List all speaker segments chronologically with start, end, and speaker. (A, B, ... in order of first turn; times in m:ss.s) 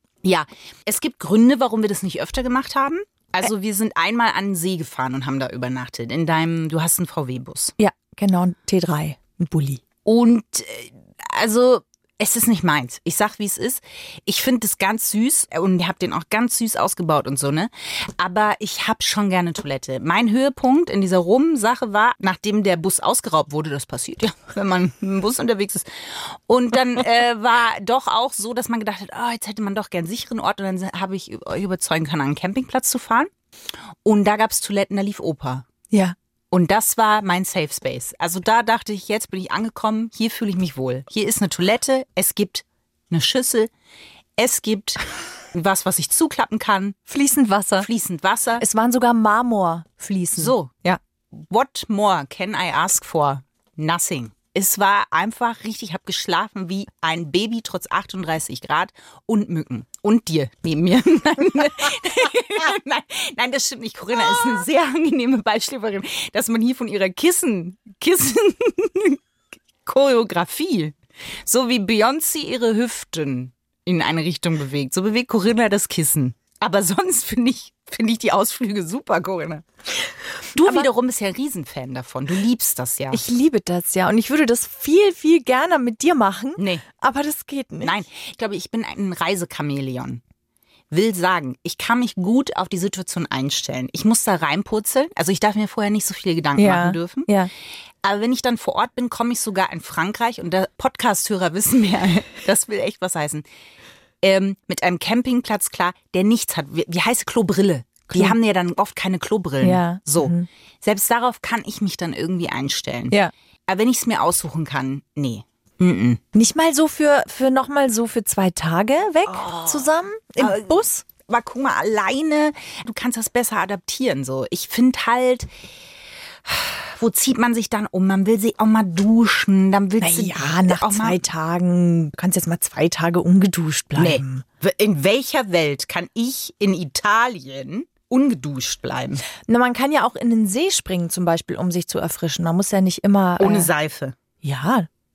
0:00.2-0:07.7 A
0:07.8-0:09.8 B
0:10.0-0:33.3 A
0:34.0-0:35.7 A
0:36.5-0:43.7 A
0:44.4-0:45.0 A
0:45.5-0:47.0 A
0:47.1-0:47.9 B
0:47.8-0:48.6 A
0:48.6-0:51.0 B
0:50.4-0:50.7 A
0:51.3-1:09.2 A
1:09.9-1:10.9 A
1:11.5-1:19.6 A
1:20.6-1:23.2 A
1:23.1-1:28.0 B
1:26.6-1:26.8 A
1:27.8-1:30.2 A
1:30.9-1:37.3 A
1:36.6-1:37.5 B
1:38.0-1:43.4 A
1:44.2-1:53.2 A
1:49.6-1:50.5 B
1:53.7-1:56.2 A
1:56.3-2:01.0 B
1:59.3-2:05.5 A
2:06.4-2:11.2 A
2:10.0-2:14.4 B
2:14.0-2:19.2 A
2:19.5-2:23.7 B
2:23.4-2:24.1 A
2:24.4-2:24.9 B